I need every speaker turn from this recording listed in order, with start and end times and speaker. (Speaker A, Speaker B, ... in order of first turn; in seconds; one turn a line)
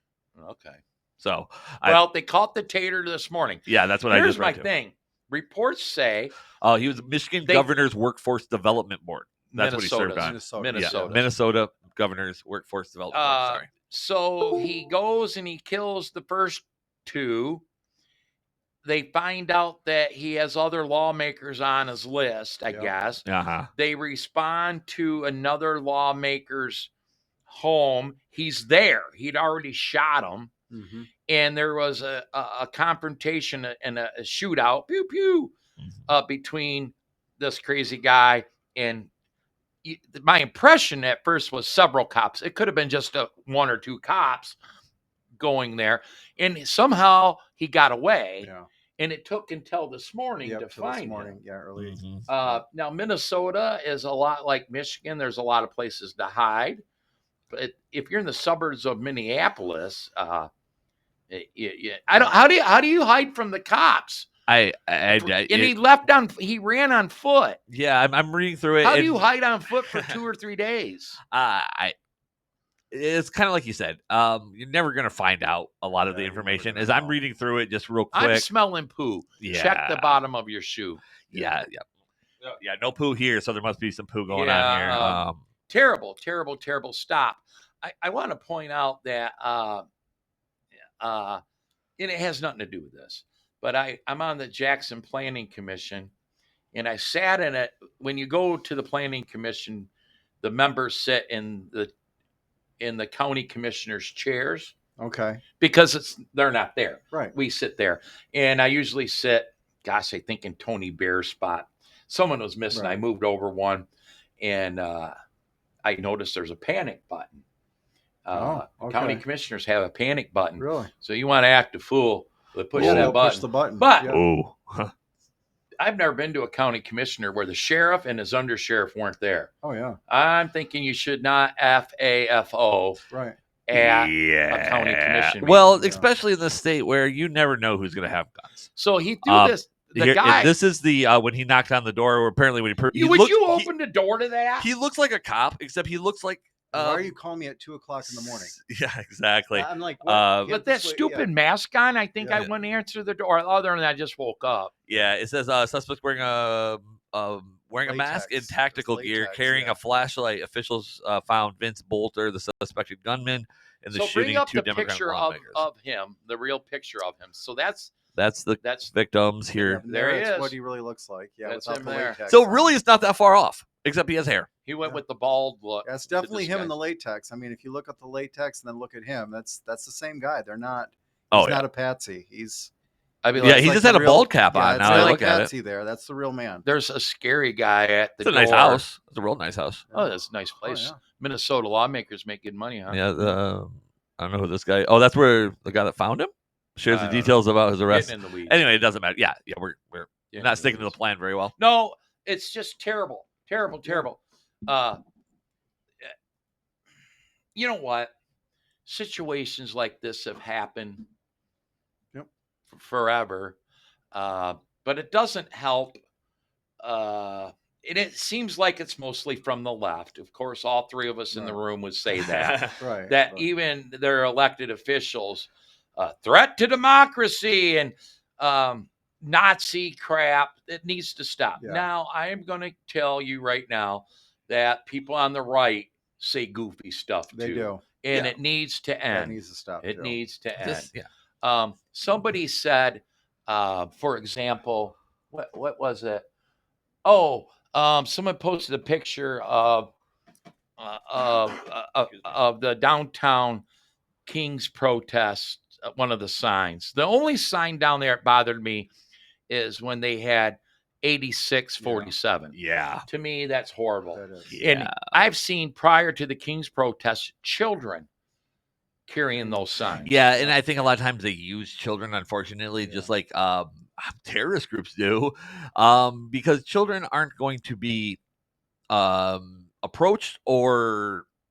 Speaker A: 0.4-0.8
Speaker B: 1.2-2.0
Speaker A: 1.8-6.3
Speaker B: 3.7-4.7
Speaker B: 6.6-13.7
Speaker A: 9.5-11.3
Speaker C: 10.2-11.2
Speaker A: 13.1-17.6
Speaker A: 18.8-23.2
Speaker C: 22.7-22.9
Speaker B: 23.2-23.7
Speaker A: 23.8-26.9
Speaker A: 27.5-30.5
Speaker C: 30.7-31.1
Speaker A: 31.3-35.5
Speaker A: 36.1-39.1
Speaker A: 39.8-44.6
Speaker A: 45.4-51.4
Speaker C: 48.4-48.7
Speaker C: 50.4-52.6
Speaker B: 51.8-52.2
Speaker A: 52.3-56.8
Speaker A: 57.5-60.5
Speaker A: 61.3-64.3
Speaker B: 64.5-65.7
Speaker A: 65.2-67.6
Speaker B: 67.7-69.2
Speaker A: 68.8-71.2
Speaker B: 69.9-70.2
Speaker B: 71.3-71.9
Speaker B: 72.9-78.5
Speaker C: 76.1-77.2
Speaker A: 78.1-81.5
Speaker B: 79.4-80.2
Speaker B: 81.3-81.8
Speaker B: 82.4-85.4
Speaker A: 84.3-89.9
Speaker A: 91.0-91.4
Speaker A: 92.0-96.1
Speaker A: 96.7-99.9
Speaker A: 100.4-101.9
Speaker A: 102.8-104.7
Speaker C: 105.0-105.4
Speaker A: 105.6-113.9
Speaker C: 112.7-113.0
Speaker A: 114.4-115.1
Speaker A: 115.8-117.4
Speaker A: 118.2-124.2
Speaker C: 118.3-119.2
Speaker C: 120.6-120.9
Speaker B: 122.8-123.2
Speaker C: 122.8-124.2
Speaker B: 124.0-124.9
Speaker A: 125.8-129.5
Speaker C: 129.6-130.0
Speaker A: 130.1-133.0
Speaker C: 133.1-133.4
Speaker A: 133.7-135.7
Speaker B: 133.7-138.7
Speaker C: 135.7-136.1
Speaker A: 138.8-140.5
Speaker B: 139.2-143.7
Speaker A: 142.9-144.7
Speaker B: 144.6-147.2
Speaker C: 146.7-148.6
Speaker B: 148.0-150.5
Speaker C: 149.5-151.3
Speaker A: 150.4-154.8
Speaker C: 152.2-152.6
Speaker B: 154.9-165.6
Speaker C: 157.8-159.8
Speaker A: 163.9-167.9
Speaker B: 168.2-169.8
Speaker A: 168.6-168.9
Speaker C: 169.6-172.8
Speaker A: 169.8-170.6
Speaker A: 171.4-172.2
Speaker B: 172.3-174.5
Speaker A: 174.7-176.7
Speaker C: 175.8-182.7
Speaker B: 181.3-181.7
Speaker A: 183.2-183.8
Speaker C: 183.3-186.6
Speaker B: 183.4-185.5
Speaker A: 184.8-185.2
Speaker A: 186.6-188.8
Speaker B: 188.2-189.8
Speaker C: 189.9-191.0
Speaker A: 189.9-193.0
Speaker B: 192.9-201.5
Speaker A: 196.9-198.6
Speaker A: 200.3-200.9
Speaker A: 201.6-205.0
Speaker A: 207.5-208.1
Speaker A: 208.8-211.0
Speaker A: 212.7-213.6
Speaker A: 214.1-216.0
Speaker A: 216.8-240.9
Speaker C: 221.3-221.6
Speaker B: 222.1-222.8
Speaker C: 222.8-223.4
Speaker C: 231.6-231.9
Speaker C: 237.3-237.8
Speaker C: 239.1-240.2
Speaker B: 240.6-241.1
Speaker A: 241.4-246.2
Speaker A: 247.1-249.9
Speaker A: 250.8-253.6
Speaker A: 254.2-258.9
Speaker A: 259.5-262.6
Speaker C: 261.8-262.1
Speaker B: 262.5-263.1
Speaker A: 263.1-268.1
Speaker C: 264.1-264.5
Speaker B: 264.5-265.1
Speaker A: 269.1-270.1
Speaker C: 269.4-270.6
Speaker B: 270.0-278.2
Speaker C: 272.8-273.1
Speaker B: 278.9-281.2